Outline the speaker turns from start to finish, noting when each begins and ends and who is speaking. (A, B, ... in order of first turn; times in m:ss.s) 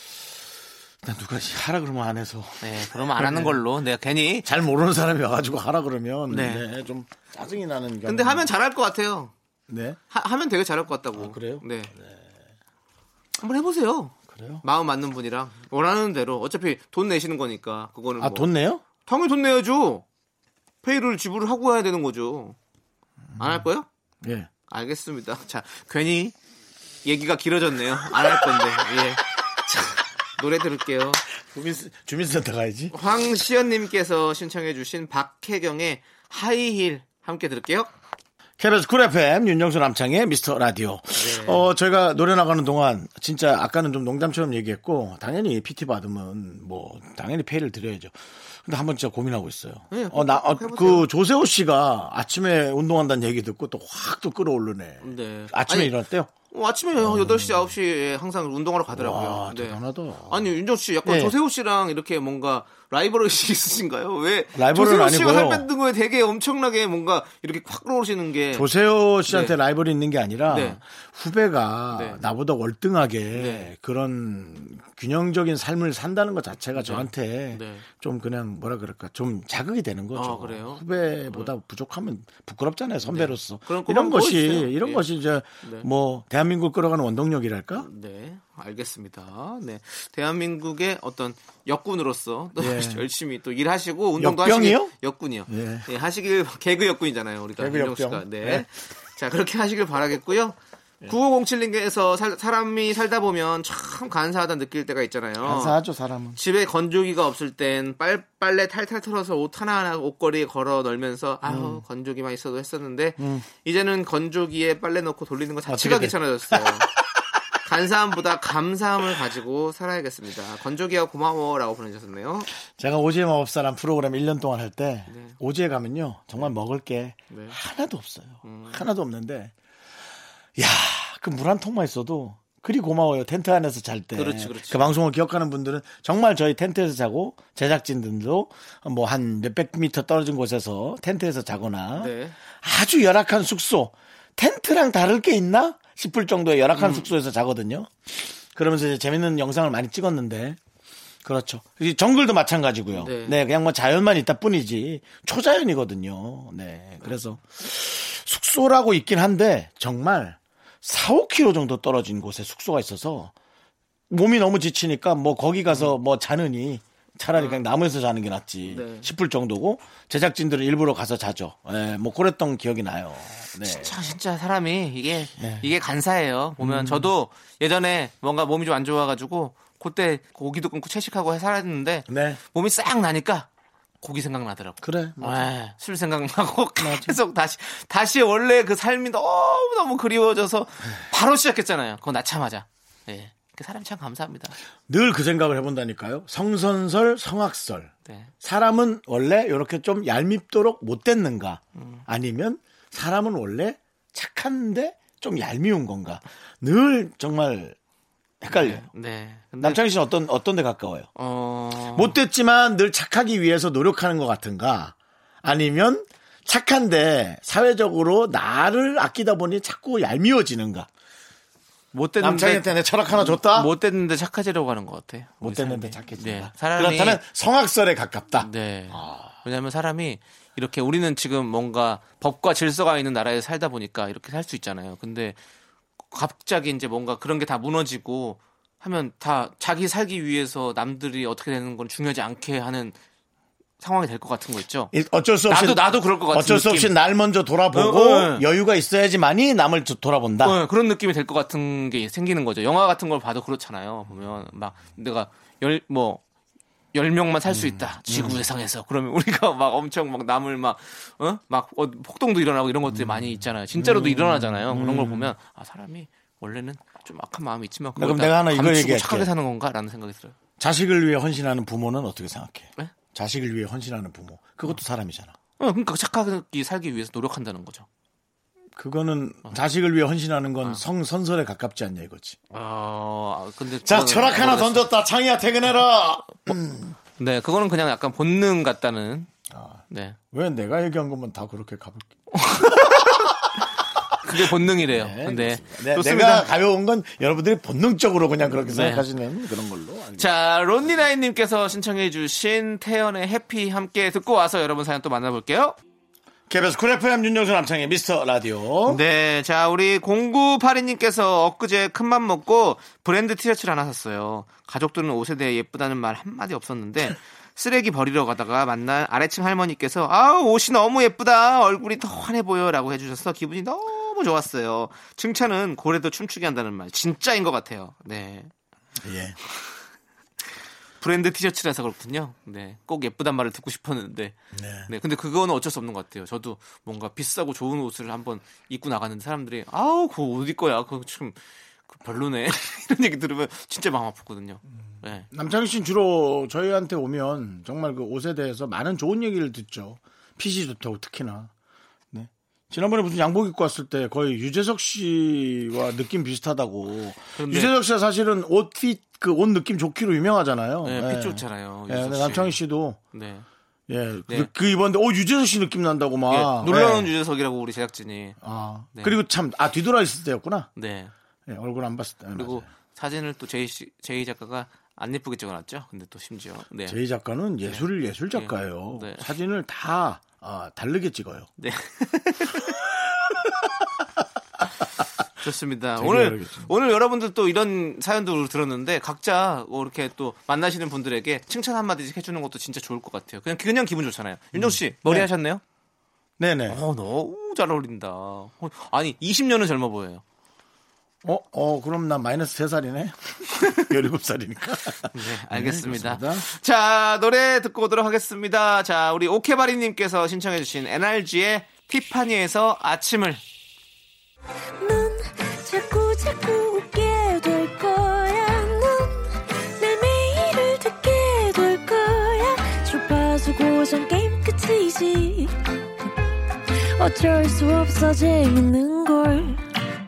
0:01.0-0:03.6 A
0:02.6-0:04.5 B
0:04.4-0:08.5 A
0:06.3-0:06.6 B
0:08.0-0:09.3 B
0:09.7-0:10.0 A
0:10.1-0:11.9 B
0:11.1-0:12.2 A
0:13.4-0:20.0 B
0:14.3-0:14.6 A
0:18.2-0:18.8 A
0:20.8-0:22.6 B
0:23.4-0:23.6 A
0:23.4-0:23.8 B
0:24.2-0:24.5 A
0:24.7-0:26.3 B
0:27.0-0:31.2 B
0:31.4-0:32.9 A
0:32.9-0:37.9 B
0:38.6-0:56.3 A
0:41.1-0:41.7 B
0:49.9-0:51.1 B
0:55.0-0:55.9 B
0:56.5-1:08.7 B
0:57.0-0:57.7 A
0:58.9-1:01.3 A
1:04.5-1:05.7 A
1:08.5-1:27.9 A
1:09.3-1:09.6 B
1:10.5-1:10.8 B
1:11.9-1:12.2 B
1:13.3-1:13.7 B
1:16.8-1:17.8 B
1:20.1-1:21.5 B
1:23.0-1:25.0 B
1:25.6-1:25.9 B
1:27.7-1:40.6 B
1:32.6-1:33.0 A
1:34.2-1:34.9 A
1:35.4-1:35.9 A
1:37.6-1:38.6 A
1:41.1-1:45.8 B
1:45.4-1:46.4 A
1:46.4-1:56.9 B
1:51.4-1:51.8 A
1:53.2-1:53.4 A
1:55.7-1:56.8 A
1:57.6-2:02.5 B
2:02.7-2:09.5 A
2:05.1-2:05.4 B
2:07.3-2:07.6 B
2:08.4-2:08.8 B
2:10.6-2:30.6 A
2:14.1-2:14.9 B
2:22.0-2:22.3 B
2:26.8-2:27.0 B
2:31.2-2:43.3 A
2:32.9-2:33.4 B
2:44.1-2:54.0 A
2:47.3-2:47.6 B
2:48.7-2:49.1 B
2:53.6-3:03.5 B
2:55.4-2:55.7 A
2:56.6-2:57.1 A
3:02.1-3:02.4 A
3:04.0-3:14.6 B
3:04.8-3:05.5 A
3:06.8-3:07.2 A
3:14.9-3:27.8 A
3:21.8-3:22.0 B
3:28.4-3:28.9 A
3:28.5-3:29.8 B
3:29.6-3:31.1 A
3:31.2-3:32.2 B
3:31.9-3:40.9 A
3:41.9-3:47.2 B
3:42.2-3:43.7 A
3:45.4-3:49.4 A
3:48.4-3:55.4 B
3:56.1-4:03.0 B
4:03.8-4:04.9 B
4:04.9-4:10.6 A
4:05.5-4:06.9 B
4:07.7-4:08.4 B
4:10.4-4:16.2 B
4:16.9-4:30.3 B
4:17.5-4:18.4 A
4:22.9-4:25.3 A
4:28.0-4:29.3 A
4:30.6-4:35.3 A
4:35.6-4:37.8 B
4:38.8-4:42.4 A
4:42.5-4:44.8 B
4:43.8-4:47.0 A
4:47.2-4:49.3 B
4:49.5-4:53.5 A
4:49.9-4:50.2 B
4:52.3-4:53.3 B
4:54.2-4:56.5 B
4:54.2-5:00.3 A
4:58.6-4:59.0 B
5:00.2-5:05.8 B
5:06.5-5:09.0 A
5:08.8-5:28.5 B
5:29.0-5:29.4 A
5:31.0-5:34.4 B
5:34.5-5:34.9 A
5:34.9-5:41.4 B
5:41.9-5:45.3 B
5:45.3-5:51.5 A
5:52.1-6:03.0 A
5:57.4-5:57.7 B
6:00.8-6:02.6 B
6:03.1-6:03.4 B
6:03.9-6:07.1 A
6:06.3-6:08.4 B
6:08.4-6:10.7 A
6:08.9-6:09.2 B
6:10.8-6:11.1 B
6:11.5-6:12.7 A
6:12.3-6:17.0 B
6:16.9-6:21.5 A
6:17.6-6:19.3 B
6:21.6-6:22.8 B
6:25.4-6:35.6 B
6:26.0-6:26.7 A
6:34.5-6:35.3 A
6:36.4-6:36.8 A
6:36.7-6:40.2 B
6:41.2-6:46.4 A
6:45.1-6:53.4 B
6:54.8-7:05.5 C
7:07.0-7:09.6 C